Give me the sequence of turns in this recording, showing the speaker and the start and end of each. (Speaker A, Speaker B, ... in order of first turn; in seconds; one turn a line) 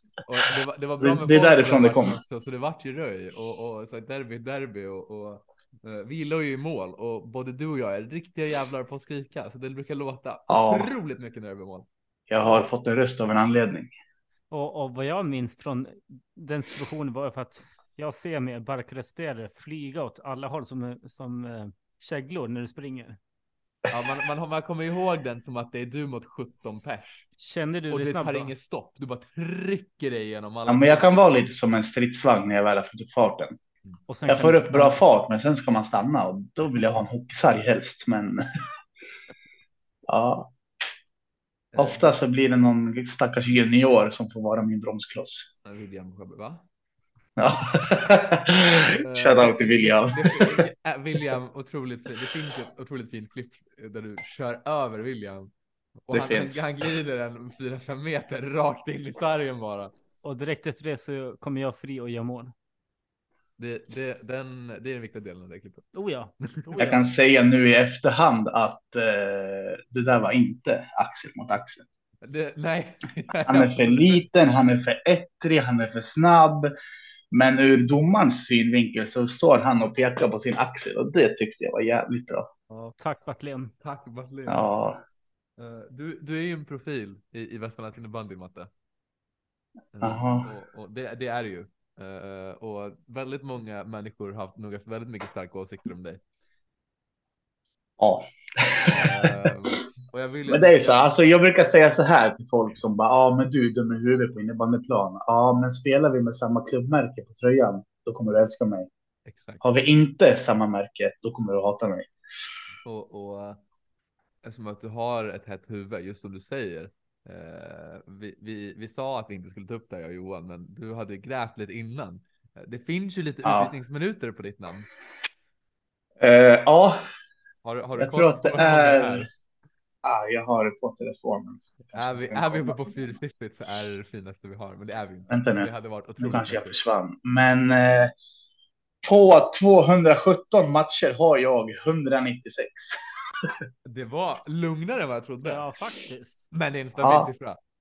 Speaker A: 0.2-11.9
Speaker B: 1.0-2.2
Speaker B: 10.5-10.9
Speaker B: 12.3-13.9
Speaker C: 14.5-23.2
Speaker A: 23.9-27.3
Speaker C: 27.4-28.5
Speaker A: 27.9-31.2
Speaker B: 30.7-33.5
Speaker C: 34.1-35.0
Speaker B: 34.3-38.4
Speaker B: 40.1-40.5
Speaker A: 41.7-42.1
Speaker B: 41.8-45.5
Speaker A: 45.6-46.6
Speaker B: 47.4-50.7
Speaker A: 48.6-55.5
Speaker A: 56.0-59.9
Speaker B: 56.1-56.6
Speaker C: 60.2-62.5
Speaker A: 63.6-65.9
Speaker C: 65.9-67.0
Speaker A: 66.4-66.8
Speaker B: 66.8-71.8
Speaker A: 72.2-74.2
Speaker B: 73.5-76.7
Speaker B: 77.3-82.5
Speaker A: 82.7-82.9
Speaker C: 83.0-83.7
Speaker A: 83.8-84.7
Speaker B: 84.5-85.0
Speaker A: 85.6-88.7
Speaker A: 89.9-96.2
Speaker B: 90.0-90.5
Speaker B: 98.0-99.7
Speaker A: 98.9-101.2
Speaker B: 100.5-108.9
Speaker A: 109.2-109.6
Speaker B: 109.6-112.1
Speaker A: 112.8-113.6
Speaker A: 114.4-124.9
Speaker B: 123.4-123.7
Speaker B: 126.2-127.0
Speaker A: 127.6-129.3
Speaker B: 128.0-129.3
Speaker B: 130.0-133.1
Speaker A: 131.9-136.8
Speaker B: 135.3-138.1
Speaker B: 139.0-143.5
Speaker A: 143.8-145.7
Speaker C: 145.4-146.4
Speaker A: 146.5-147.6
Speaker B: 147.0-147.3